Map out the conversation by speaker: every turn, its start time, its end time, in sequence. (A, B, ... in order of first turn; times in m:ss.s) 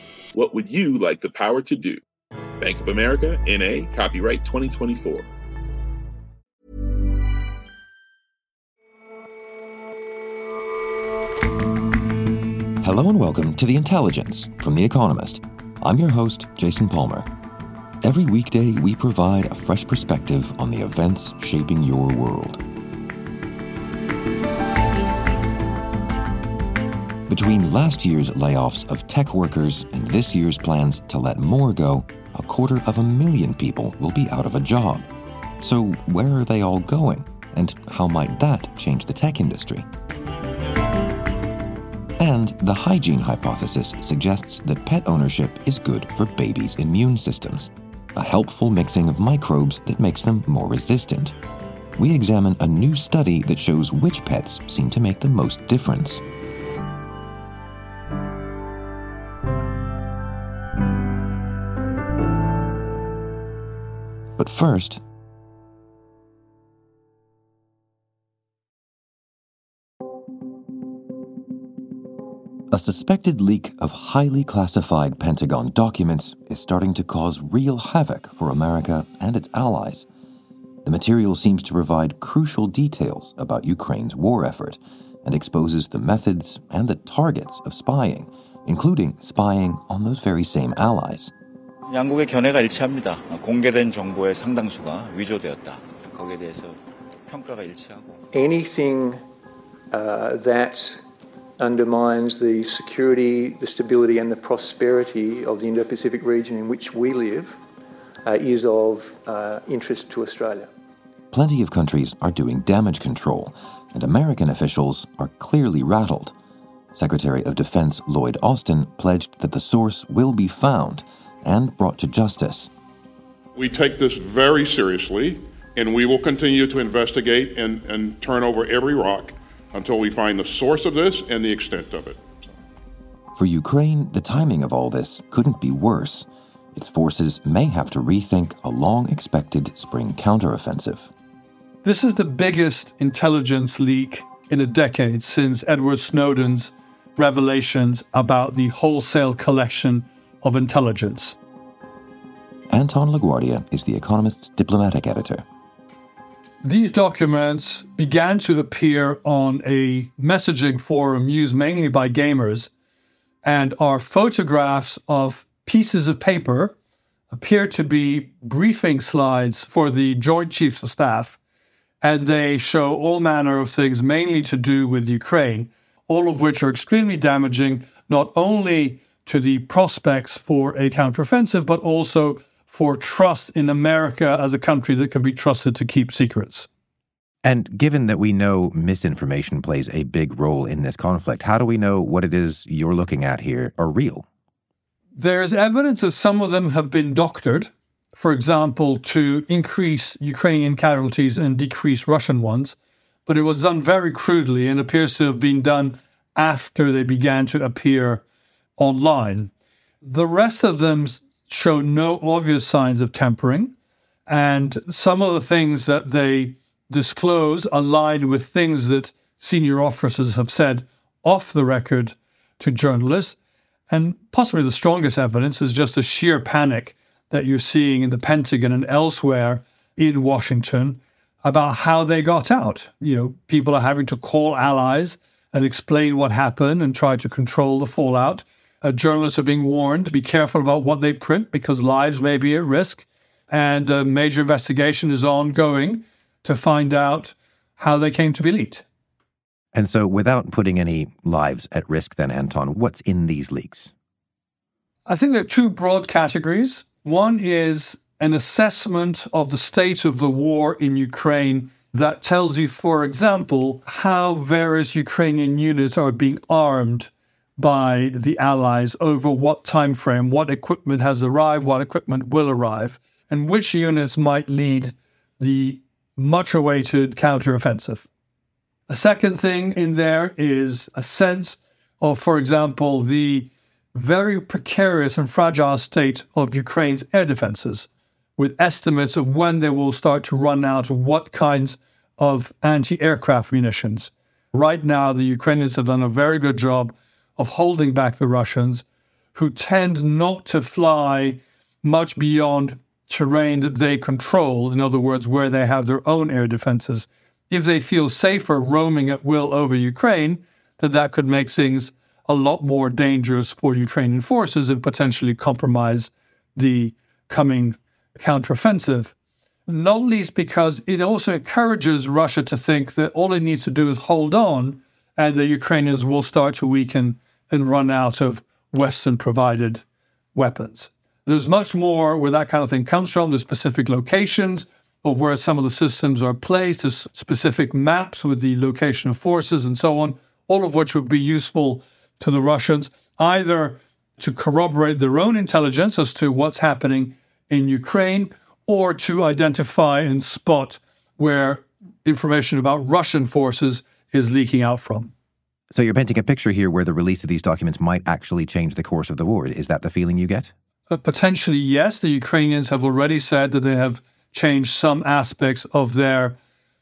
0:00.3-0:02.0 A
0:02.6-0:05.3 A
0:12.8-0:17.3 B
0:18.0-0:22.6 B
0:27.3-0:35.1 B
0:35.6-0:39.9 B
0:42.2-0:51.4 B
0:52.0-0:56.2 B
1:04.4-1:05.0 B
1:12.7-1:20.1 B
1:20.8-1:31.3 B
1:31.9-1:38.2 C
1:38.3-1:39.2 D
1:39.9-1:41.0 D
1:41.6-1:47.6 D
1:48.3-1:50.7 D
1:51.3-1:56.3 B
1:56.9-2:02.7 B
2:03.6-2:12.2 E
2:13.4-2:21.1 B
2:21.8-2:31.4 F
2:32.7-2:35.4 B
2:36.6-2:42.7 F
2:43.4-2:46.8 F
2:47.3-2:51.4 F
2:52.0-3:06.7 F
3:07.4-3:14.2 G
3:15.2-3:28.2 F
3:28.8-3:29.5 F
3:30.0-3:33.7 F
3:34.3-3:43.4 F
3:43.9-4:08.8 F
4:09.7-4:13.9 G
4:15.1-4:38.1 F
4:38.9-5:19.1 F
5:19.7-5:29.8 F
5:30.4-5:55.1 F
5:55.7-6:00.5 G
6:00.9-6:06.4 F